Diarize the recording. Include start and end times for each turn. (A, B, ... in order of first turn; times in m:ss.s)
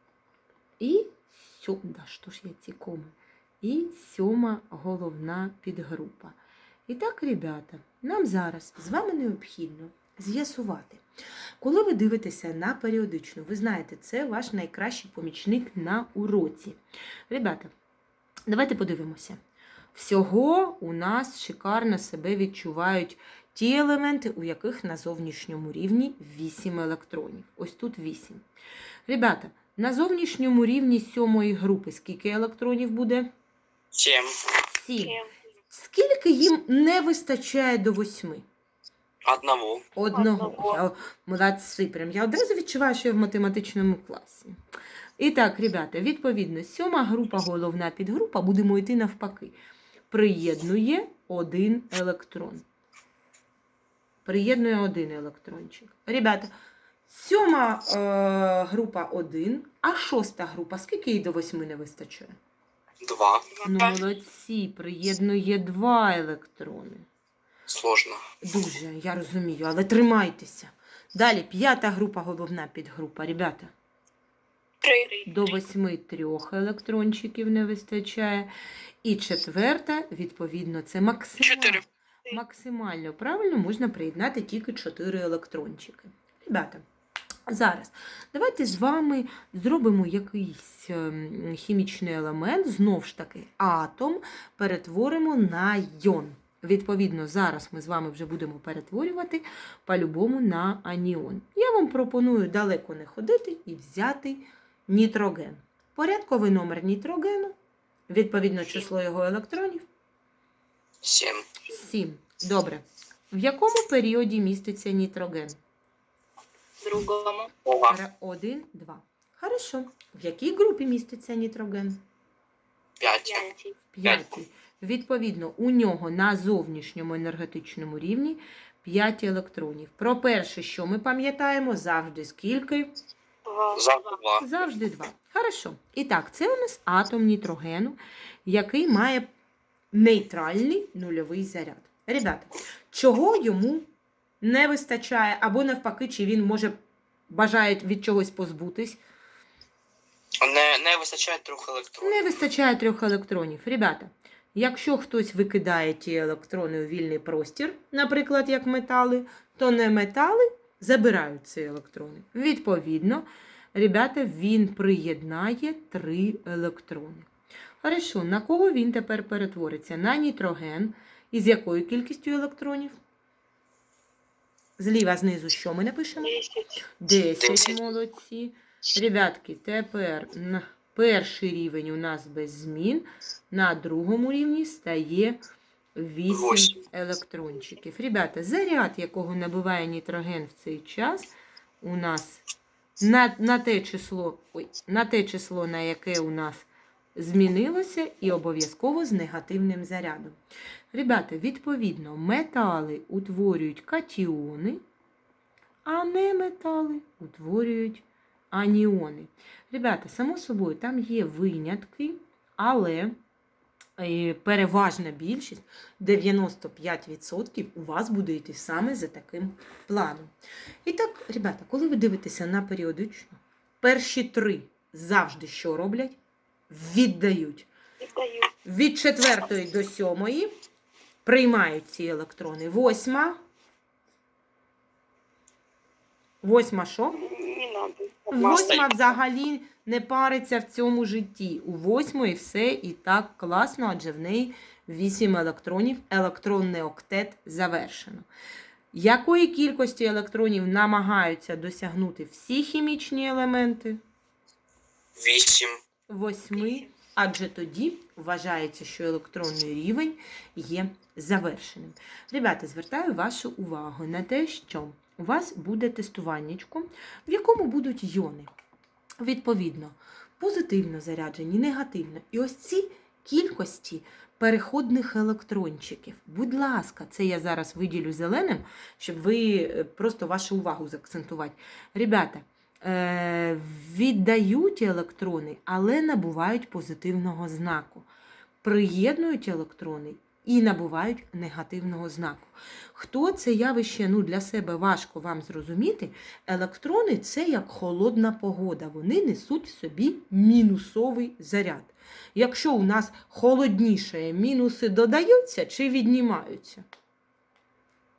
0:00.8-0:11.0 A
0:11.6-0:17.7 A
0:18.5-0:19.4 A
0:19.9-0:28.4 A
0:29.1-0:33.3 A
0:33.9-0:34.4 B
0:34.7-0:35.2 A
0:35.0-0:35.3 C
0:35.7-0:38.4 A
0:39.2-0:39.8 B
0:40.0-0:44.6 A
0:40.1-0:40.8 C
0:45.2-0:49.5 A
0:50.1-0:52.6 A
0:54.2-0:56.5 A
0:57.1-1:02.4 A
1:03.0-1:03.6 B
1:03.6-1:07.1 A
1:07.7-1:08.3 B
1:08.4-1:13.7 A
1:14.8-1:15.4 C
1:15.2-1:18.5 A
1:19.0-1:26.8 A
1:21.4-1:21.8 B
1:27.5-1:47.6 A
1:48.1-1:49.9 A
1:51.0-1:51.5 B
1:51.7-1:55.6 A
1:56.8-1:57.5 C
1:57.6-1:58.0 B
1:57.9-2:02.0 A
2:03.0-2:03.5 B
2:03.2-2:03.8 C
2:03.9-2:12.9 A
2:04.0-2:04.3 B
2:13.4-2:14.1 C
2:13.7-2:14.5 B
2:14.4-2:19.3 A
2:19.9-2:23.9 A
2:24.4-2:26.7 A
2:27.3-2:29.0 A
2:30.4-2:32.2 B
2:32.0-2:47.3 A
2:47.8-2:53.0 A
2:54.8-2:56.4 A
2:56.2-2:56.8 C
2:57.0-3:05.4 A
2:57.4-2:57.8 B
3:06.0-3:11.3 A
3:06.3-3:06.8 B
3:11.8-3:12.4 A
3:13.0-3:20.4 A
3:20.9-3:24.8 A
3:25.8-3:33.2 A
3:34.0-3:40.3 A
3:40.8-3:46.2 A
3:46.7-3:47.7 A
3:48.0-3:48.5 C
3:48.6-3:50.5 A
3:51.2-3:53.4 A
3:56.4-3:57.2 A
3:57.1-3:58.8 C
3:58.3-4:08.3 A
3:58.4-3:58.9 B
4:08.9-4:14.0 A
4:15.2-4:15.8 B
4:16.1-4:28.5 A
4:16.6-4:16.9 C
4:29.2-4:48.1 A
4:48.6-5:06.8 A